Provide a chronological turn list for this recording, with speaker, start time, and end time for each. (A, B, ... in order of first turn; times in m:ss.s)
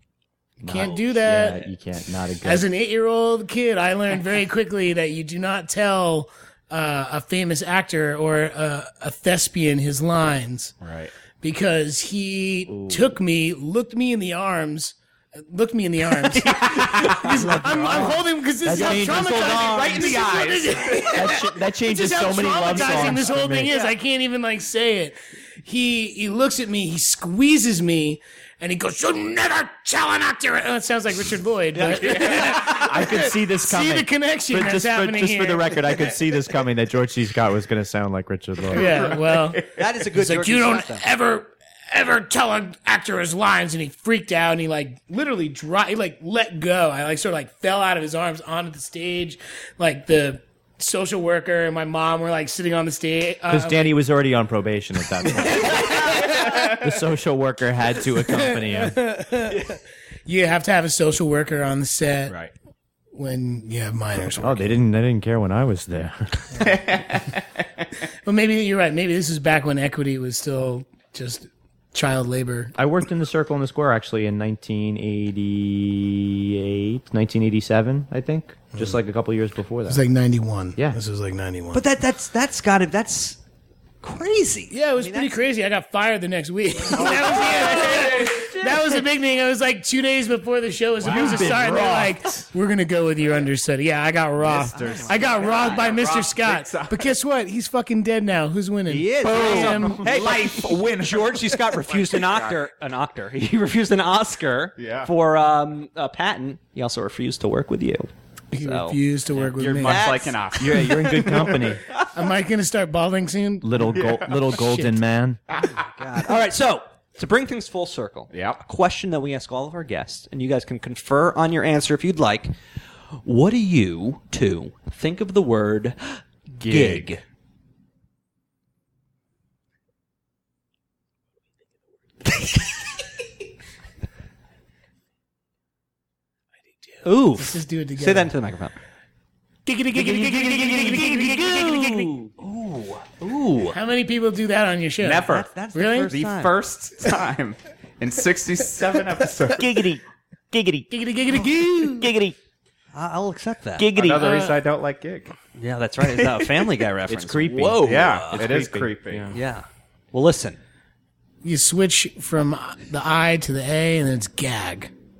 0:00.6-0:01.7 A
0:00.6-0:02.6 B
0:02.4-0:10.7 A
0:10.8-0:11.1 C
0:11.4-0:35.9 A
0:12.7-0:13.2 B
0:16.3-0:17.2 C
0:16.6-0:20.3 D
0:18.6-0:19.5 B
0:19.3-0:21.3 C
0:21.1-0:23.8 B
0:22.6-0:23.0 C
0:22.7-0:23.1 D
0:31.8-0:32.9 C
0:32.6-0:39.2 B
0:38.7-0:39.6 C
0:38.7-0:53.9 A
0:39.7-0:41.0 D
0:53.5-0:59.0 B
0:55.2-0:56.9 A
0:58.3-1:02.4 A
1:03.1-1:04.7 A
1:04.4-1:06.8 B
1:06.6-1:07.4 C
1:08.2-1:12.7 A
1:12.7-1:20.0 B
1:19.9-1:21.8 A
1:21.7-1:23.4 D
1:24.0-1:25.4 D
1:24.7-1:40.4 A
1:26.9-1:28.0 D
1:27.0-1:28.7 C
1:31.0-1:32.1 C
1:31.1-1:32.0 D
1:31.2-1:31.7 B
1:34.4-1:37.1 C
1:34.5-1:35.8 D
1:38.9-1:50.5 D
1:39.2-1:42.6 C
1:44.8-1:45.1 C
1:48.5-1:50.2 A
1:49.5-1:50.9 C
1:50.6-1:51.8 B
1:52.1-1:53.9 A
1:53.6-1:55.4 B
1:53.9-1:54.6 C
1:55.6-2:02.6 D
1:58.3-1:58.6 C
2:03.2-2:07.2 D
2:06.6-2:07.1 C
2:17.0-2:18.7 D
2:17.3-2:18.3 A
2:19.6-2:22.1 A
2:19.9-2:23.8 D
2:20.4-2:21.9 B
2:23.7-2:26.1 A
2:25.0-2:25.5 C
2:25.2-2:26.5 D
2:26.1-2:29.7 C
2:29.6-2:32.4 B
2:30.9-2:32.1 A
2:32.9-2:34.5 D
2:33.8-2:34.4 B
2:33.9-2:35.3 C
2:35.6-2:38.5 D
2:36.2-2:36.5 C
2:37.1-2:39.4 B
2:37.8-2:39.3 C
2:39.3-2:40.6 D
2:41.4-2:44.9 A